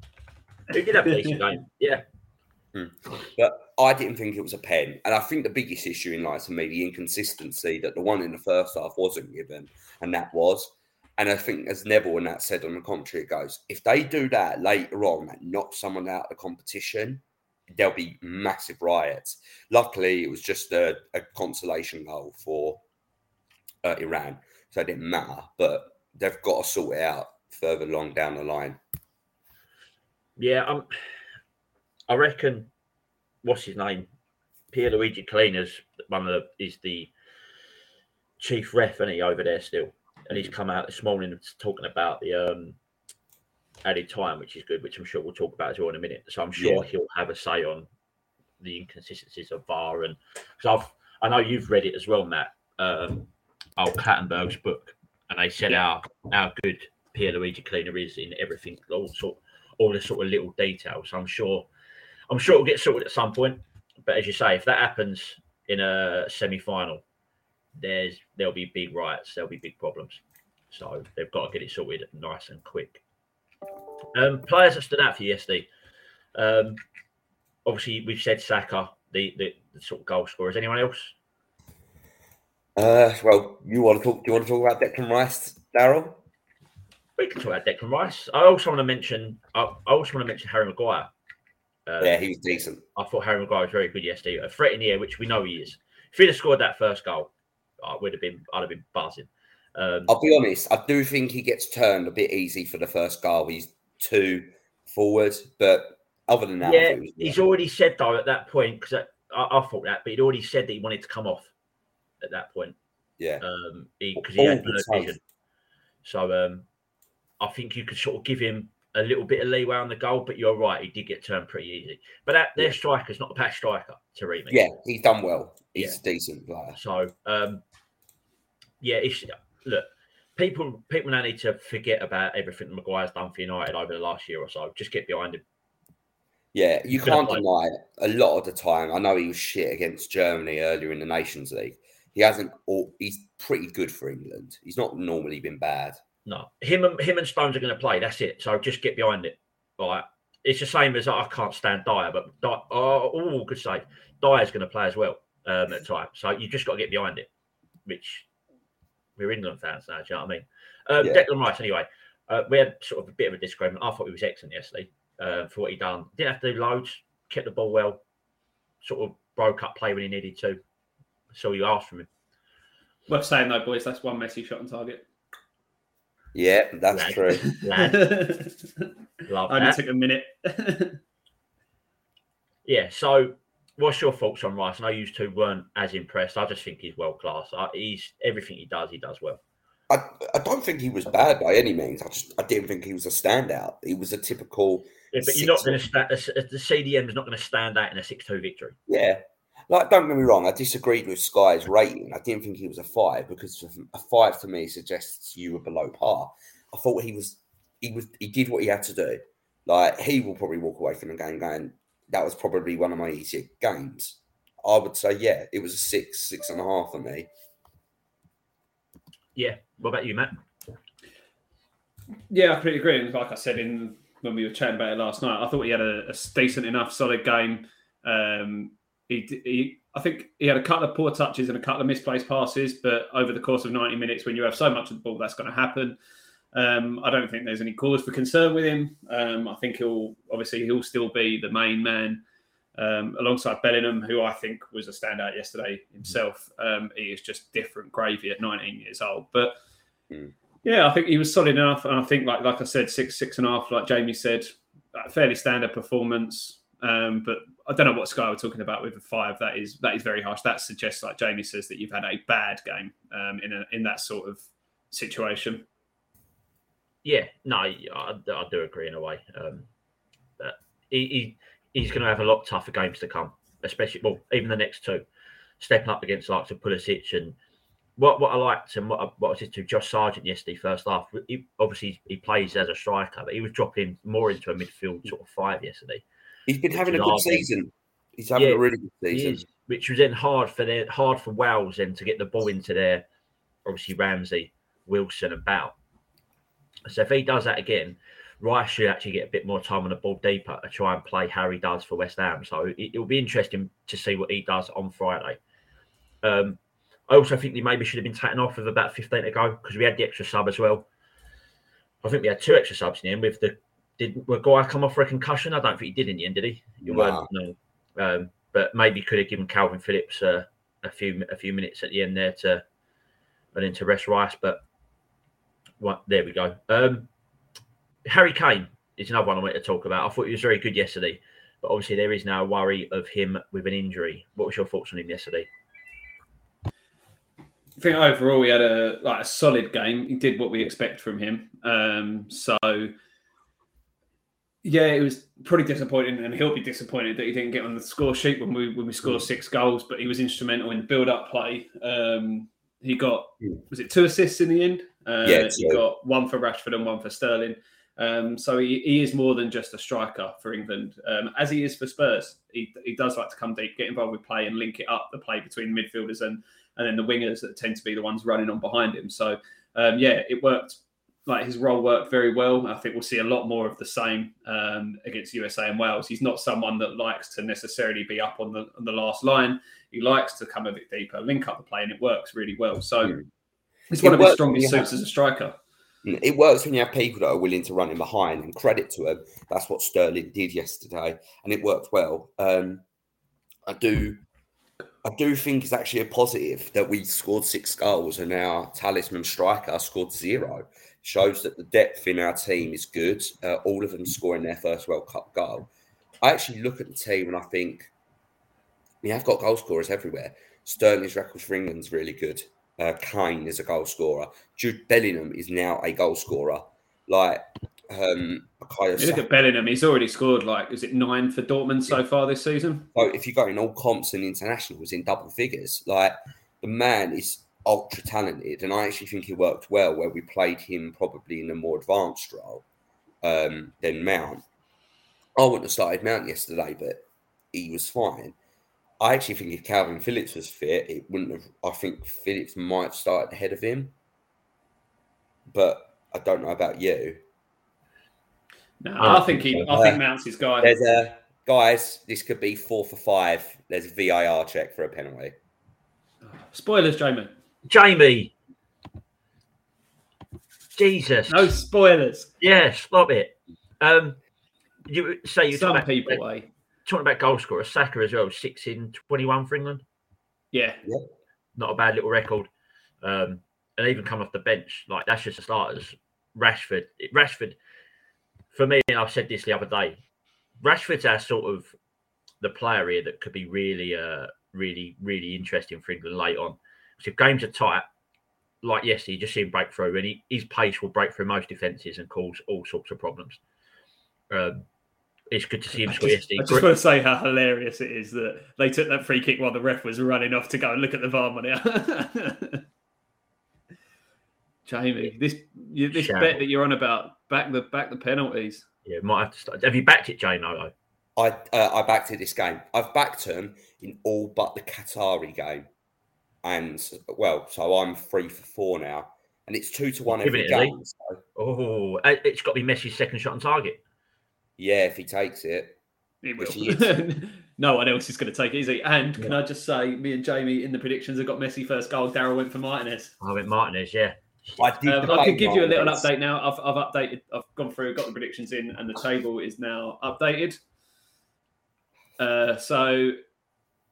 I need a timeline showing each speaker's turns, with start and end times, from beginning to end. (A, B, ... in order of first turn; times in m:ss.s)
0:00.7-0:02.0 A
0:02.7-0:22.8 B
0:23.8-0:28.8 B
0:30.4-0:30.9 A
0:32.1-0:32.7 A
0:33.4-0:34.1 A
0:34.7-0:37.1 A
0:38.4-0:42.8 A
0:43.8-0:47.9 A
0:46.6-0:46.8 B
0:48.6-1:01.7 A
1:02.3-1:07.0 A
1:07.8-1:13.0 A
1:14.1-1:15.7 A
1:16.4-1:16.8 A
1:17.6-1:21.1 A
1:22.8-1:26.2 B
1:27.2-1:31.1 A
1:31.9-1:32.2 A
1:32.0-1:32.8 B
1:32.9-1:40.1 A
1:40.1-1:47.4 B
1:46.6-1:51.5 A
1:52.2-1:52.8 A
1:53.4-1:55.2 A
1:54.2-1:55.2 B
1:56.0-1:56.6 A
1:57.4-2:04.6 A
2:04.5-2:06.8 B
2:06.7-2:07.6 A
2:08.8-2:15.4 A
2:16.5-2:26.0 B
2:17.0-2:17.4 A
2:26.2-2:37.3 A
2:37.8-2:38.2 A
2:39.2-2:48.0 A
2:41.0-2:41.2 B
2:48.8-2:50.6 A
2:51.3-2:52.1 A
2:53.1-2:55.0 C
2:56.3-2:57.5 B
2:56.9-2:58.0 A
2:57.5-2:58.9 C
2:59.3-2:59.8 A
2:59.5-3:01.0 C
3:02.6-3:09.4 A
3:09.9-3:15.8 B
3:15.1-3:18.8 A
3:18.9-3:37.3 B
3:39.4-3:40.3 A
3:42.3-3:56.0 C
3:56.5-4:02.2 C
4:02.8-4:09.5 C
4:10.6-4:25.6 C
4:27.0-4:29.7 A
4:30.4-4:35.0 A
4:35.6-4:37.4 A
4:38.0-4:46.0 A
4:46.5-4:49.4 B
4:46.7-4:47.5 A
4:48.3-4:53.0 A
4:53.6-4:55.7 A
4:56.8-5:05.4 A
5:06.2-5:06.6 A
5:07.1-5:10.8 A
5:12.0-5:22.6 A
5:16.8-5:17.3 B
5:23.5-5:24.6 A
5:25.8-5:27.1 A
5:28.0-5:35.5 A
5:37.8-5:42.9 C
5:44.6-6:23.2 C
5:55.2-5:55.8 B
6:23.9-6:25.6 C
6:24.0-6:24.9 B
6:26.0-6:32.8 B
6:33.6-6:34.2 B
6:35.0-6:45.7 B
6:46.2-6:47.9 B
6:49.0-6:59.2 B
6:59.0-7:02.9 C
7:02.9-7:12.6 B
7:13.2-7:14.4 B
7:15.4-7:18.3 B
7:19.0-7:23.9 B
7:25.5-7:27.2 B
7:28.8-7:30.7 C
7:29.0-7:29.4 A
7:29.1-7:30.0 B
7:30.6-7:35.3 B
7:36.2-7:37.3 C
7:37.7-7:38.3 A
7:40.8-7:41.5 A
7:41.3-7:42.3 C
7:42.4-7:44.2 A
7:44.9-7:46.2 A
7:45.5-7:46.5 C
7:46.8-7:49.8 A
7:50.5-7:50.8 C
7:51.6-7:52.5 A
7:53.0-7:57.6 A
7:58.5-8:00.0 A
8:00.6-8:01.7 A
8:02.4-8:07.8 A
8:08.6-8:13.4 A
8:14.3-8:14.6 A
8:15.3-8:16.6 A
8:15.8-8:22.6 C
8:24.6-8:28.6 C
8:25.9-8:26.4 A
8:28.8-8:30.7 A
8:31.2-8:35.7 B
8:36.4-8:41.2 B
8:40.1-8:40.7 A
8:41.4-8:43.8 A
8:44.6-8:45.8 B
8:46.2-8:53.1 C
8:46.4-8:46.9 B
8:53.2-8:55.2 A
8:54.6-8:56.1 B
8:54.8-9:00.6 C
9:02.2-9:03.2 C